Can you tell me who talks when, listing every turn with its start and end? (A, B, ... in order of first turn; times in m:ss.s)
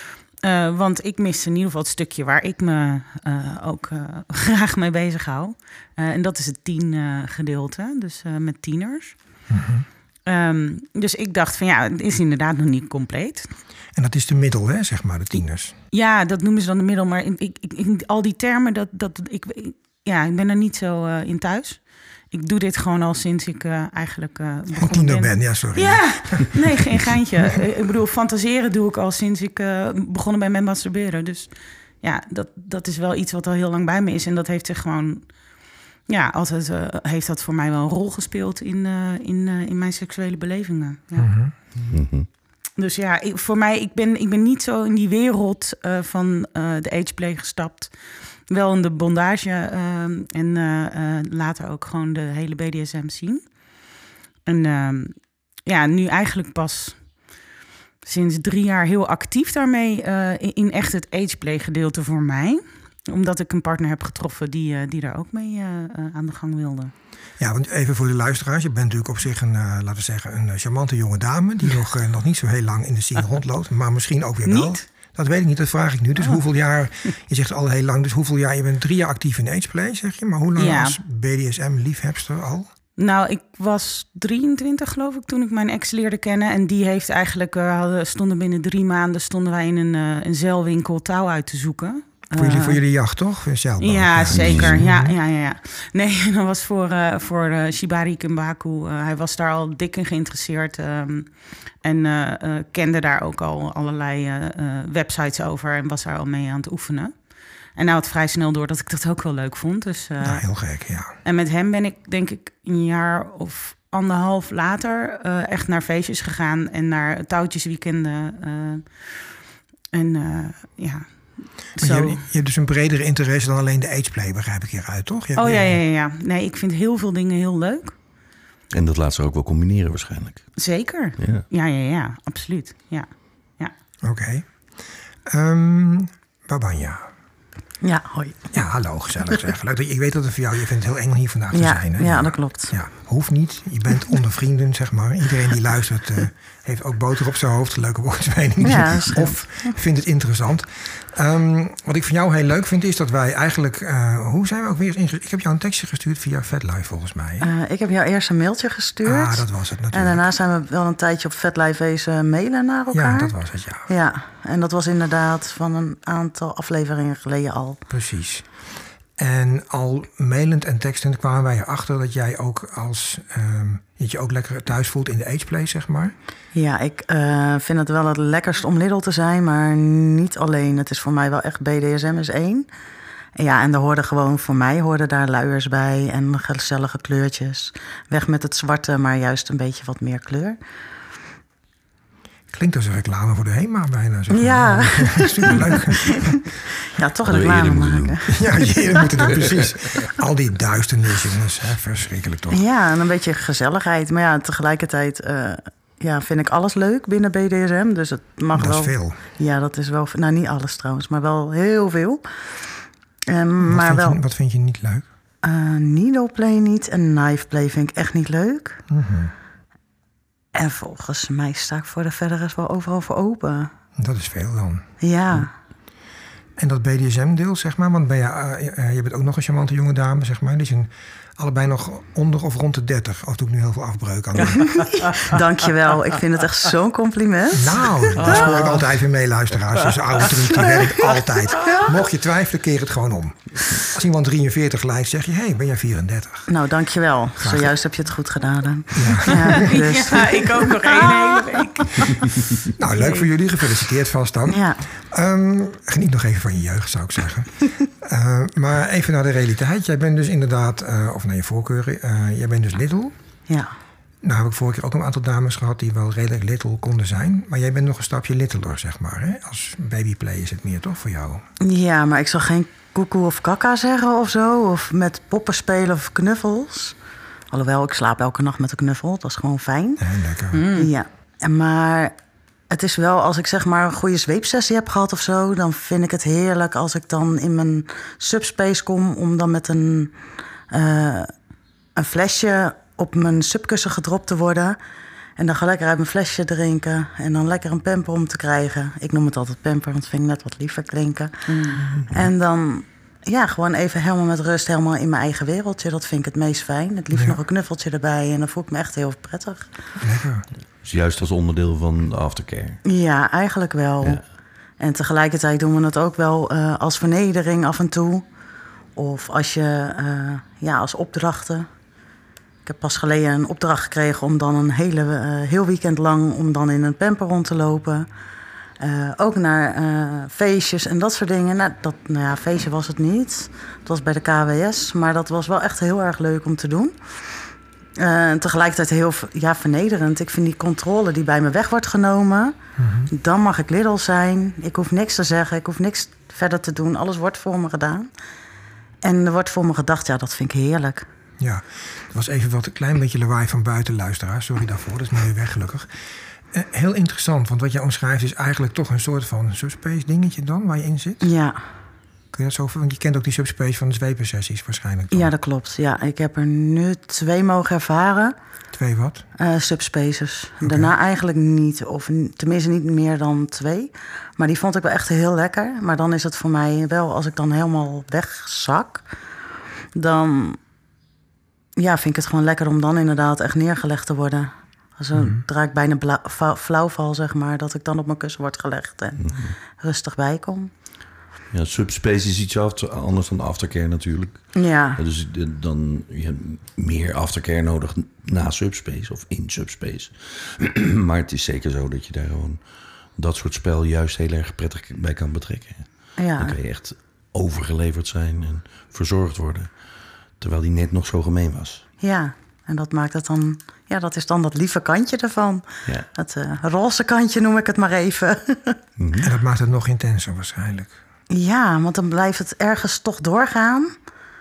0:00.4-0:09.2 A
0:09.5-0:09.9 B
0:10.3-0:13.5 A
0:14.0-0:15.8 B
0:15.9-0:35.3 A
0:24.8-0:26.6 B
0:36.1-0:41.3 A
0:41.2-0:41.5 B
0:41.8-0:42.3 C
0:42.8-0:47.9 A
0:48.5-0:53.5 A
0:54.4-0:57.1 A
0:58.0-1:06.9 A
1:07.4-1:22.7 B
1:14.4-1:14.8 A
1:20.6-1:21.0 A
1:23.0-1:32.8 A
1:32.3-1:35.2 B
1:33.8-1:47.2 A
1:34.3-1:34.9 C
1:47.7-1:50.4 A
1:50.2-1:51.1 B
1:51.2-1:59.2 A
1:59.9-2:02.2 A
2:01.8-2:05.8 B
2:05.4-2:08.0 A
2:08.7-2:10.5 C
2:10.6-2:13.7 A
2:11.2-2:11.5 C
2:14.0-2:14.5 B
2:15.3-2:17.1 B
2:17.8-2:18.5 D
2:18.5-2:37.5 B
2:21.5-2:22.7 D
2:28.6-2:29.7 D
2:37.4-2:43.3 D
2:39.0-2:40.3 B
2:42.9-2:43.9 B
2:43.9-2:47.8 D
2:47.9-2:48.4 B
2:49.2-2:56.1 B
2:56.5-3:02.7 D
3:03.4-3:10.6 D
3:12.5-3:16.4 B
3:14.3-3:19.3 D
3:17.2-3:18.4 C
3:18.3-3:22.6 B
3:19.3-3:19.6 C
3:22.5-3:34.2 D
3:28.6-3:29.2 B
3:33.7-3:35.1 B
3:35.4-3:38.8 D
3:38.9-3:39.3 B
3:40.5-3:43.7 D
3:44.0-3:44.9 B
3:45.0-3:45.5 D
3:46.6-3:55.4 B
3:54.5-3:58.8 D
3:57.6-4:06.5 B
4:00.5-4:01.0 D
4:06.5-4:12.0 D
4:07.4-4:07.8 B
4:08.9-4:09.7 B
4:09.3-4:12.4 A
4:12.8-4:23.1 B
4:13.0-4:13.3 A
4:14.5-4:14.9 D
4:23.5-4:23.7 D
4:24.2-4:31.4 B
4:31.6-4:37.0 D
4:37.5-4:40.1 D
4:40.0-4:40.6 B
4:40.5-4:40.9 A
4:40.7-4:42.1 D
4:42.7-4:50.2 D
4:50.7-4:51.3 D
4:52.0-4:54.8 D
4:55.4-5:09.7 D
5:01.5-5:01.9 A
5:01.8-5:02.1 B
5:07.1-5:07.4 B
5:10.0-5:10.4 B
5:10.8-5:12.8 C
5:12.8-5:14.2 D
5:14.8-5:18.3 D
5:19.0-5:21.7 D
5:22.7-5:28.1 D
5:28.8-5:42.6 D
5:42.8-5:43.1 B
5:43.1-5:48.1 D
5:49.0-5:51.1 D
5:51.4-6:01.3 B
6:01.2-6:01.6 D
6:02.3-6:05.3 B
6:05.1-6:08.4 D
6:08.7-6:09.3 B
6:09.4-6:19.1 D
6:10.6-6:10.9 B
6:19.9-6:20.6 D
6:21.8-6:30.7 D
6:25.1-6:25.4 B
6:29.2-6:29.6 C
6:31.5-6:42.6 C
6:34.6-6:35.0 D
6:43.2-6:49.7 C
6:46.2-6:46.6 D
6:50.4-6:51.8 C
6:52.0-6:58.8 D
6:59.0-6:59.3 C
6:59.2-7:00.9 B
7:01.3-7:04.0 D